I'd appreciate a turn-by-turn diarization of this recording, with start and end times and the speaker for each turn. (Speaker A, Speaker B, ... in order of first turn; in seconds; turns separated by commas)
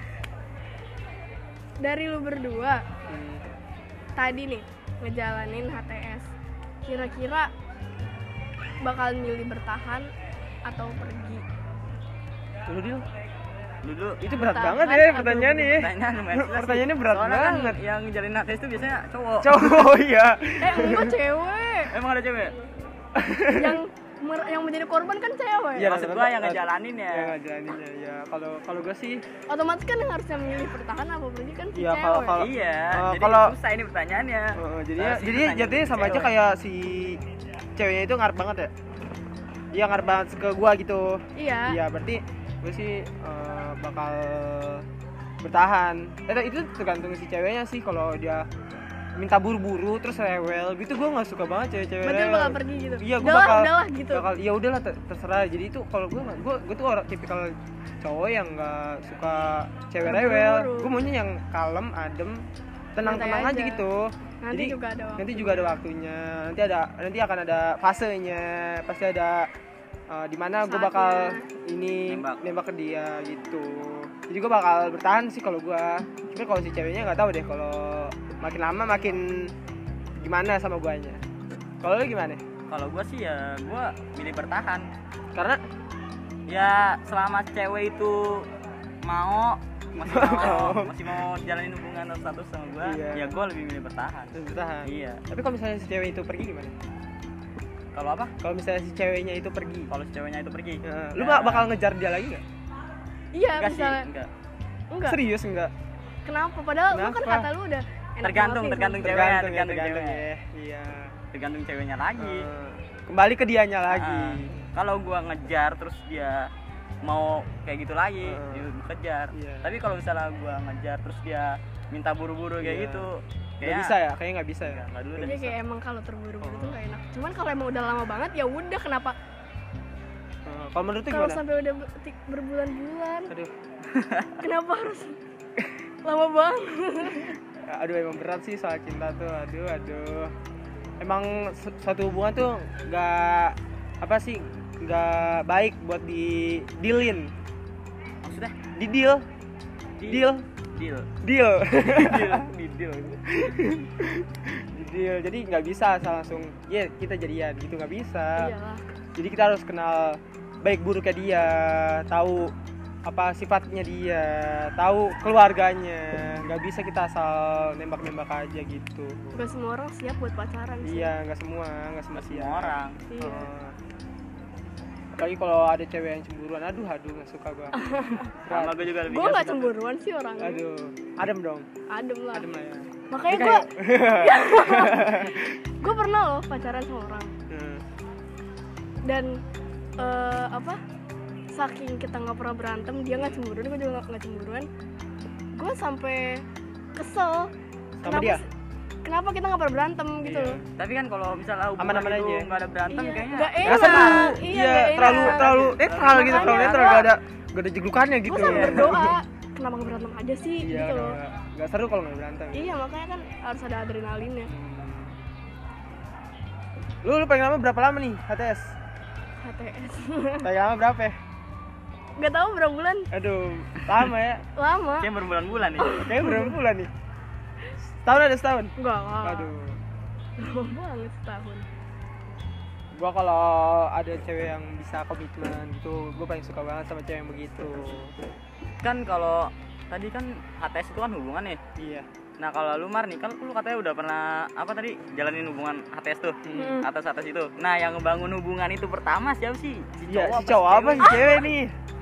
Speaker A: 1.8-2.8, Speaker B: 3.1-3.5, Speaker A: 4.2-6.3, Speaker A: 6.9-7.5, Speaker A: 8.8-10.1, Speaker A: 10.7-11.4, Speaker B: 12.7-13.0, Speaker C: 13.8-14.2, Speaker B: 14.2-17.8, Speaker A: 14.3-15.8, Speaker C: 15.7-19.7, Speaker B: 19.4-21.2, Speaker A: 20.6-21.9, Speaker C: 21.9-22.5, Speaker B: 23.1-23.8, Speaker A: 23.6-25.9, Speaker B: 25.8-29.2, Speaker C: 25.8-27.3, Speaker A: 29.5-32.4, Speaker B: 31.7-33.5, Speaker C: 32.4-36.3, Speaker B: 34.6-37.2, Speaker B: 37.8-38.7, Speaker B: 39.7-44.9, Speaker A: 41.4-41.8, Speaker B: 45.4-48.5, Speaker B: 49.2-62.5, Speaker A: 52.0-54.2, Speaker A: 60.0-60.9, Speaker B: 63.0-69.5, Speaker A: 63.0-63.8, Speaker A: 64.4-65.8, Speaker B: 70.1-79.5, Speaker A: 70.6-71.5, Speaker C: 72.1-72.4, Speaker B: 80.2-81.2, Speaker B: 81.8-82.4, Speaker C: 82.7-84.9, Speaker B: 85.3-85.6, Speaker C: 86.5-88.5, Speaker C: 89.0-94.3, Speaker B: 90.0-91.0, Speaker B: 92.8-93.3, Speaker B: 94.3-96.8, Speaker C: 94.8-95.2, Speaker C: 97.9-98.3, Speaker B: 98.4-99.9, Speaker C: 99.9-101.7, Speaker B: 100.8-102.4, Speaker A: 103.3-104.1, Speaker C: 103.6-104.3, Speaker A: 104.9-105.2, Speaker B: 105.1-105.7, Speaker A: 106.2-109.2, Speaker B: 106.9-107.5, Speaker C: 108.2-110.2, Speaker B: 109.0-111.1, Speaker C: 111.3-112.5, Speaker B: 112.2-114.6, Speaker C: 113.9-116.5, Speaker C: 117.0-123.9, Speaker B: 118.2-118.7, Speaker B: 119.3-119.7, Speaker B: 122.6-123.1, Speaker B: 123.6-124.8, Speaker C: 124.7-125.5, Speaker A: 125.2-129.2, Speaker B: 126.4-126.8, Speaker B: 130.5-131.4, Speaker A: 131.1-133.3, Speaker C: 133.9-134.3, Speaker A: 134.4-135.2, Speaker A: 136.0-137.4, Speaker B: 137.7-140.3, Speaker B: 141.0-147.3, Speaker C: 148.2-148.6, Speaker B: 148.8-149.2, Speaker C: 150.0-151.1, Speaker B: 150.1-150.4, Speaker B: 151.2-152.5, Speaker C: 151.8-153.2, Speaker B: 153.3-158.5, Speaker A: 158.4-158.8, Speaker B: 159.2-162.5, Speaker B: 163.1-169.5, Speaker A: 169.3-171.2, Speaker B: 170.8-173.8, Speaker C: 172.2-173.0, Speaker A: 173.1-173.5, Speaker B: 175.2-177.8, Speaker A: 177.8-178.3, Speaker B: 178.3-178.9, Speaker C: 178.5-179.8, Speaker A: 179.1-180.6, Speaker B: 180.4-181.7, Speaker A: 181.9-182.5, Speaker B: 182.3-185.6, Speaker A: 183.1-187.3, Speaker B: 187.5-187.8, Speaker A: 189.1-189.4, Speaker A: 190.0-190.8, Speaker A: 191.5-194.7, Speaker B: 193.2-193.4, Speaker A: 195.6-196.4, Speaker A: 197.0-197.5, Speaker B: 198.0-198.4, Speaker A: 198.1-198.5, Speaker A: 199.1-200.6, Speaker B: 200.2-200.7, Speaker C: 200.8-204.4, Speaker B: 201.8-202.5, Speaker A: 202.9-207.1, Speaker B: 203.6-209.1, Speaker C: 205.0-206.9, Speaker A: 208.3-211.2, Speaker C: 208.4-209.0, Speaker B: 210.6-212.8, Speaker A: 212.5-214.5, Speaker B: 214.5-215.2, Speaker B: 217.0-218.7, Speaker A: 219.4-220.5, Speaker B: 220.4-221.2, Speaker A: 222.2-223.1, Speaker B: 223.1-224.4, Speaker A: 224.6-225.1, Speaker C: 225.0-226.0, Speaker A: 225.8-226.6, Speaker B: 226.0-226.9, Speaker B: 227.8-229.8, Speaker A: 228.8-229.5, Speaker A: 230.4-231.7, Speaker B: 232.9-238.1, Speaker C: 238.8-241.6, Speaker B: 241.8-242.1, Speaker C: 242.4-251.2, Speaker B: 246.5-246.8, Speaker A: 246.5-246.8, Speaker B: 250.1-251.7, Speaker A: 251.0-251.5